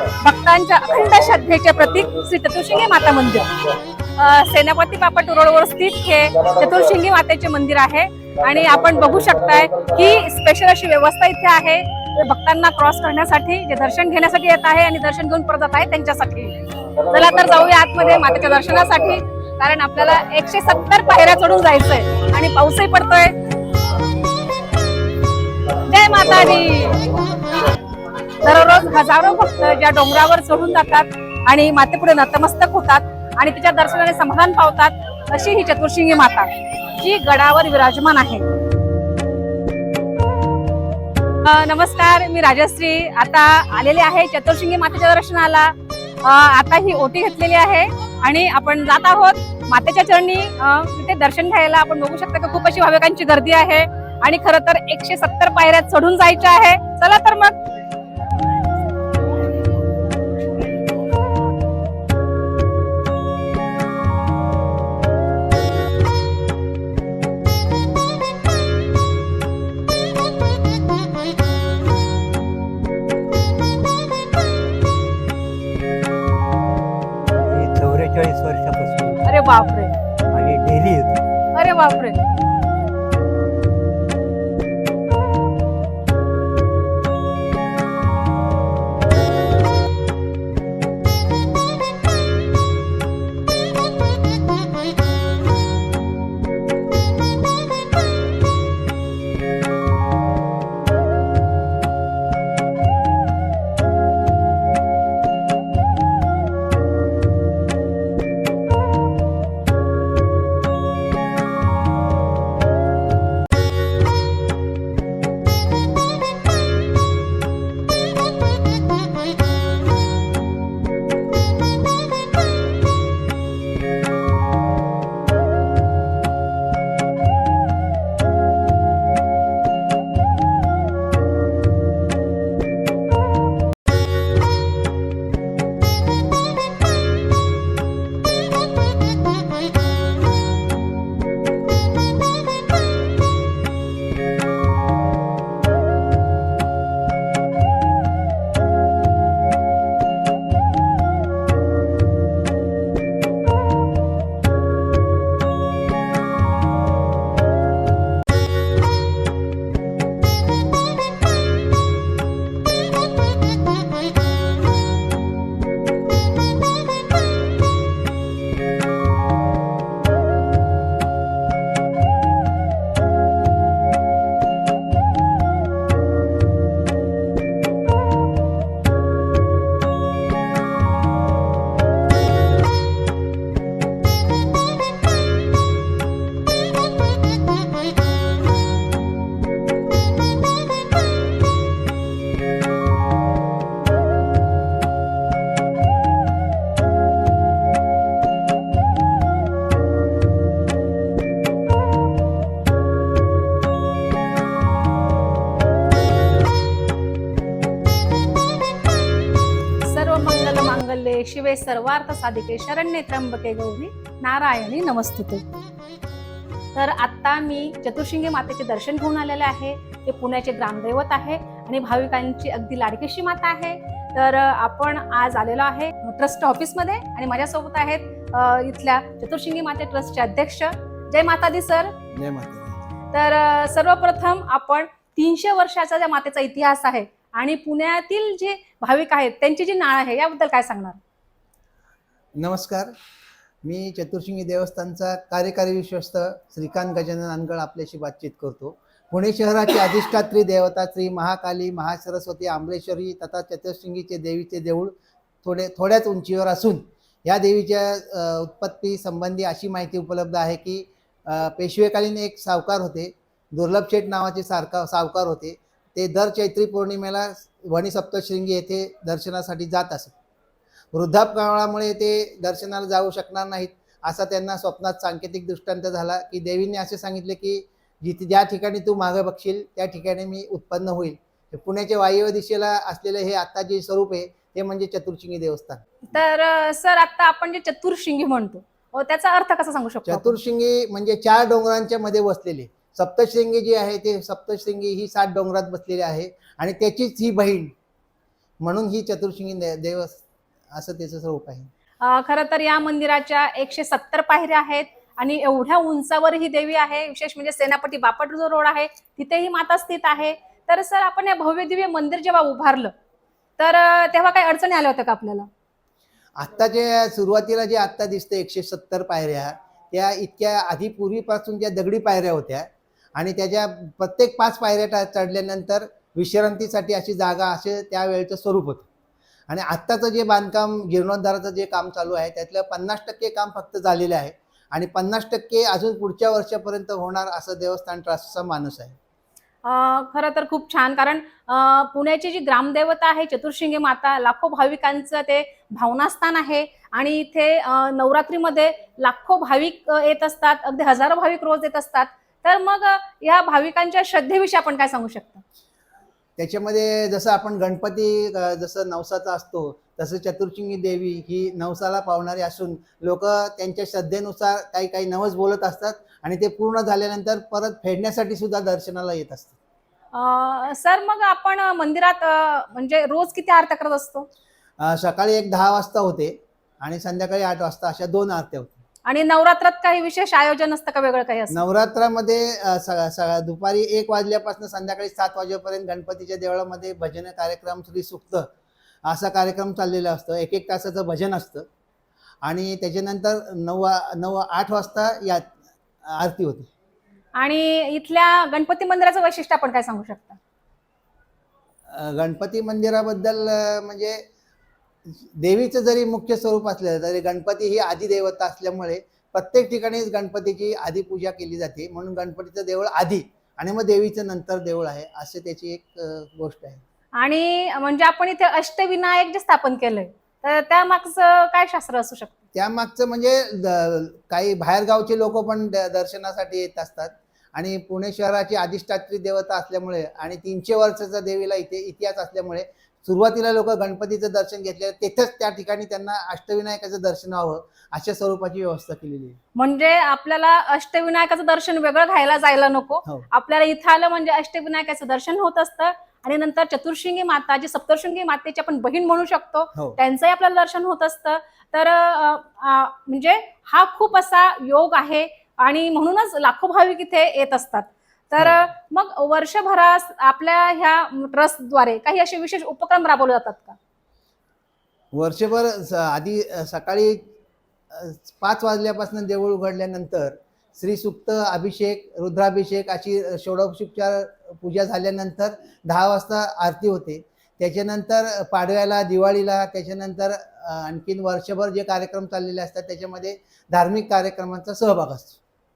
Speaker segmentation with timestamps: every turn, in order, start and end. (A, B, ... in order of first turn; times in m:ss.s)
0:00.2-0:03.5 A
0:04.2-0:23.4 A
0:25.8-0:27.2 A
0:28.4-0:38.5 A
0:41.4-0:57.6 A
1:17.3-1:19.4 B
1:19.3-1:19.9 A
1:20.3-1:21.2 B
1:21.6-1:22.2 A
3:29.8-3:35.5 A
3:36.8-3:52.0 A
3:52.1-3:52.8 C
3:53.1-4:01.0 A
4:02.4-4:02.9 C
4:03.6-4:30.2 C
4:30.9-4:45.9 C
4:46.1-4:50.4 A
4:50.1-4:57.7 C
4:58.6-5:01.7 C
5:02.0-5:12.9 A
5:13.6-5:15.5 A
5:16.4-5:28.9 C
5:29.5-5:39.0 C
5:39.6-5:55.4 A
5:56.4-6:09.6 C
6:10.1-6:14.3 A
6:14.8-6:18.8 C
6:19.1-6:21.6 A
6:21.5-6:28.5 C
6:29.1-6:31.7 C
6:32.4-6:35.5 C
6:36.1-6:36.7 C
6:37.4-6:40.4 A
6:41.9-6:44.2 C
6:45.1-6:56.8 C
6:57.2-7:02.4 A
7:02.6-7:19.4 C
7:19.6-7:43.8 A
7:45.1-7:47.3 C
7:47.9-8:05.4 C